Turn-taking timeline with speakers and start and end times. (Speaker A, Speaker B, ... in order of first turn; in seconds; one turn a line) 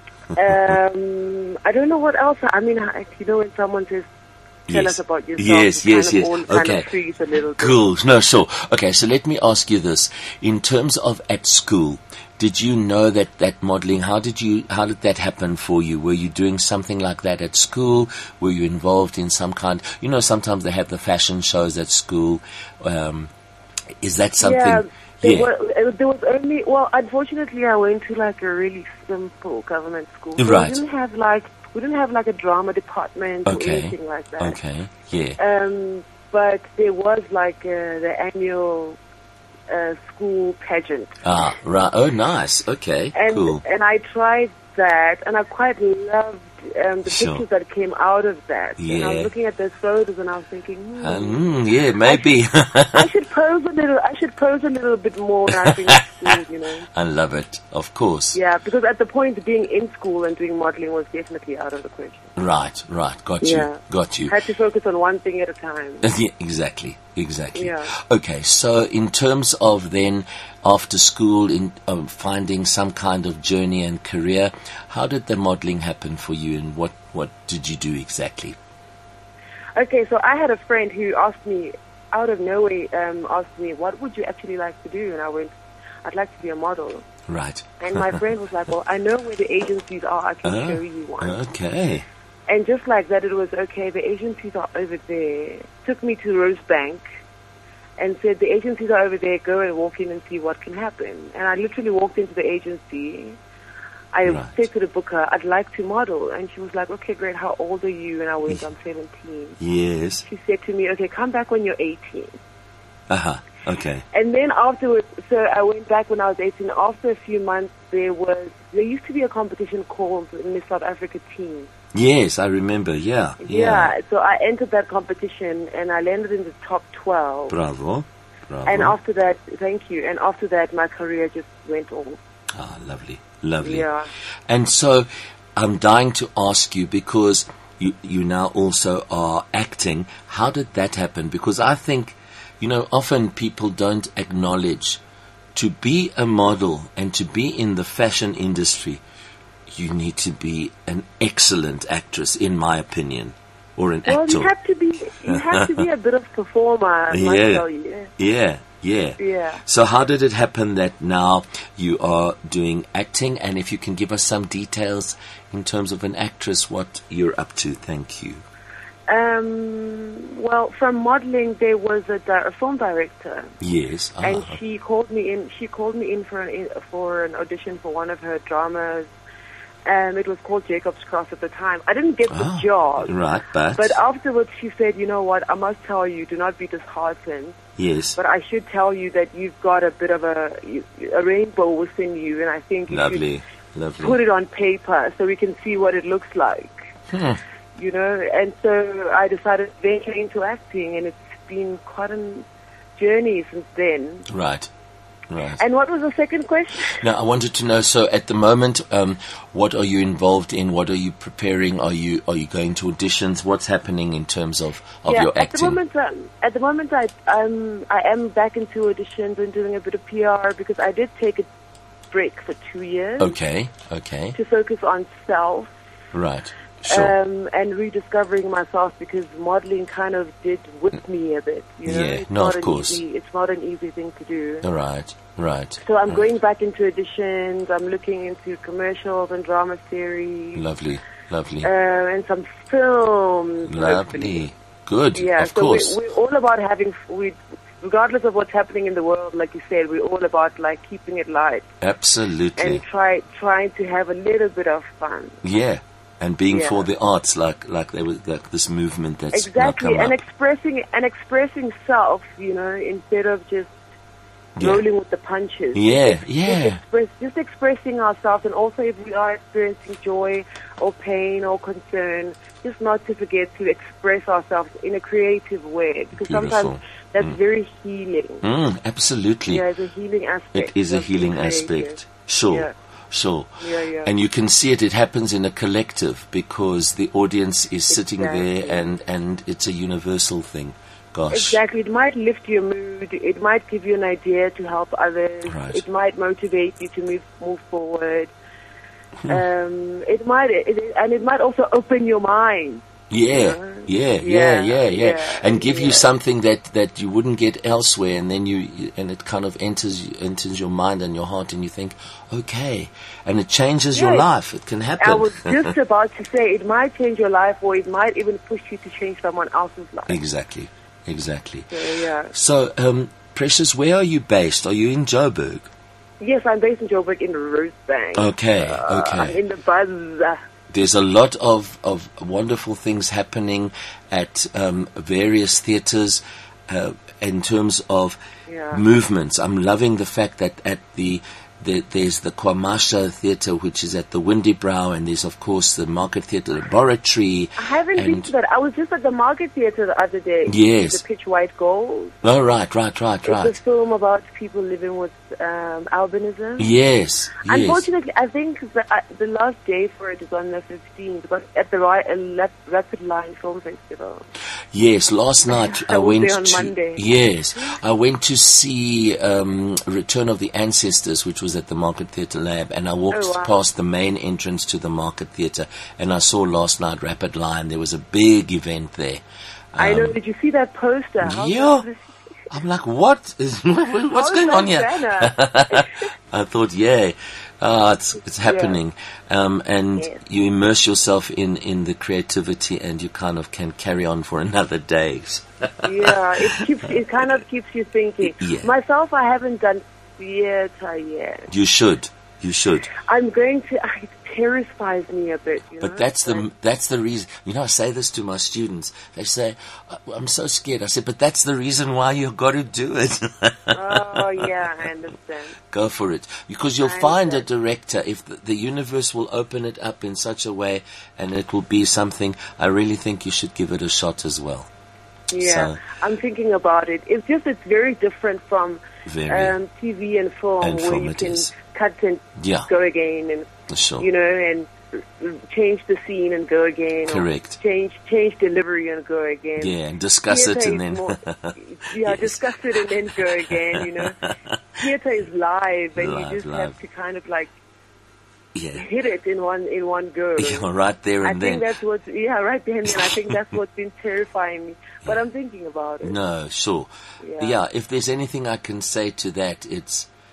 Speaker A: 0.3-0.7
Speaker B: 0.4-4.1
Speaker B: 4.7-7.8
Speaker A: 4.7-6.9
Speaker A: 7.6-23.3
Speaker A: 24.0-25.5
Speaker B: 24.4-34.6
Speaker A: 30.4-30.8
Speaker A: 33.5-35.4
Speaker B: 35.4-39.0
Speaker B: 39.7-41.2
Speaker A: 41.2-43.6
Speaker B: 43.1-51.5
Speaker A: 47.0-47.5
Speaker A: 48.8-49.3
Speaker A: 51.0-53.1
Speaker B: 52.0-52.4
Speaker B: 52.9-56.9
Speaker A: 55.7-56.3
Speaker A: 56.9-58.4
Speaker B: 58.3-62.3
Speaker A: 62.4-64.3
Speaker B: 63.4-66.1
Speaker A: 66.0-78.6
Speaker B: 67.5-67.9
Speaker B: 79.8-85.5
Speaker B: 86.0-87.1
Speaker A: 87.3-88.2
Speaker B: 87.8-91.4
Speaker A: 90.5-92.0
Speaker B: 92.5-97.0
Speaker B: 98.0-103.4
Speaker B: 104.1-109.6
Speaker A: 104.2-104.6
Speaker A: 109.6-110.2
Speaker B: 110.2-112.4
Speaker A: 113.1-114.0
Speaker B: 114.1-121.7
Speaker A: 121.9-123.9
Speaker B: 123.4-127.6
Speaker A: 127.5-129.0
Speaker B: 128.7-132.2
Speaker A: 132.6-133.9
Speaker B: 133.6-134.1
Speaker A: 134.5-145.0
Speaker A: 145.6-149.0
Speaker A: 149.7-154.5
Speaker B: 154.1-158.1
Speaker A: 155.3-155.8
Speaker A: 157.1-157.7
Speaker A: 158.2-168.4
Speaker B: 159.2-159.6
Speaker B: 169.1-173.5
Speaker A: 173.6-174.6
Speaker B: 174.2-179.1
Speaker B: 179.8-183.2
Speaker A: 182.3-184.0
Speaker B: 183.7-187.6
Speaker A: 187.8-188.2
Speaker B: 188.2-193.3
Speaker A: 192.9-194.2
Speaker B: 194.0-196.8
Speaker A: 197.1-197.4
Speaker B: 197.8-204.3
Speaker A: 204.3-204.7
Speaker A: 205.3-205.6
Speaker B: 205.6-207.0
Speaker A: 206.9-215.8
Speaker B: 215.1-221.5
Speaker B: 222.1-223.4
Speaker A: 223.2-224.4
Speaker B: 224.3-225.7
Speaker A: 226.1-227.1
Speaker B: 226.9-234.7
Speaker A: 231.8-233.0
Speaker A: 234.6-235.8
Speaker B: 235.8-240.6
Speaker A: 240.6-241.7
Speaker B: 241.6-244.4
Speaker A: 243.7-246.0
Speaker B: 245.2-251.7
Speaker A: 251.8-252.8
Speaker B: 252.6-255.4
Speaker A: 255.4-260.2
Speaker B: 256.5-256.9
Speaker B: 259.3-263.7
Speaker A: 264.6-264.8
Speaker B: 264.6-278.4
Speaker A: 265.8-266.8
Speaker A: 276.2-277.4
Speaker A: 278.4-279.6
Speaker B: 279.5-282.0
Speaker A: 280.5-291.6
Speaker B: 283.6-284.1
Speaker B: 287.9-288.9
Speaker B: 291.3-298.3
Speaker A: 295.5-295.8
Speaker B: 299.3-306.1
Speaker A: 303.1-315.6
Speaker B: 313.9-314.3
Speaker B: 315.0-320.2
Speaker A: 320.1-321.7
Speaker B: 321.7-322.3
Speaker A: 322.3-325.7
Speaker B: 326.2-330.4
Speaker A: 328.1-329.4
Speaker A: 330.7-338.2
Speaker B: 338.5-338.8
Speaker A: 338.7-348.3
Speaker B: 347.6-352.2
Speaker A: 350.5-351.0
Speaker A: 352.2-353.6
Speaker B: 353.3-356.7
Speaker A: 356.6-357.9
Speaker B: 357.4-364.2
Speaker A: 364.7-379.2
Speaker B: 365.5-367.1
Speaker B: 373.1-373.6
Speaker A: 379.7-380.2
Speaker B: 379.8-382.1
Speaker A: 381.2-381.9
Speaker A: 382.5-396.6
Speaker B: 384.1-386.0
Speaker B: 388.4-388.8
Speaker B: 395.8-401.5
Speaker A: 398.2-398.7
Speaker A: 401.5-402.9
Speaker B: 403.0-406.5
Speaker A: 405.8-414.5
Speaker B: 413.7-415.6
Speaker A: 415.7-424.7
Speaker B: 416.8-417.5
Speaker B: 425.3-439.8
Speaker A: 425.4-425.8
Speaker A: 429.1-429.6
Speaker A: 430.6-431.5
Speaker A: 432.4-432.7
Speaker A: 433.7-434.1
Speaker A: 437.1-437.6
Speaker A: 439.6-444.6
Speaker B: 440.3-444.2
Speaker B: 444.8-447.5
Speaker A: 445.9-446.8
Speaker A: 448.6-448.9
Speaker B: 448.8-450.7
Speaker A: 450.4-451.7
Speaker B: 451.2-456.2
Speaker A: 456.0-460.1
Speaker B: 457.2-457.6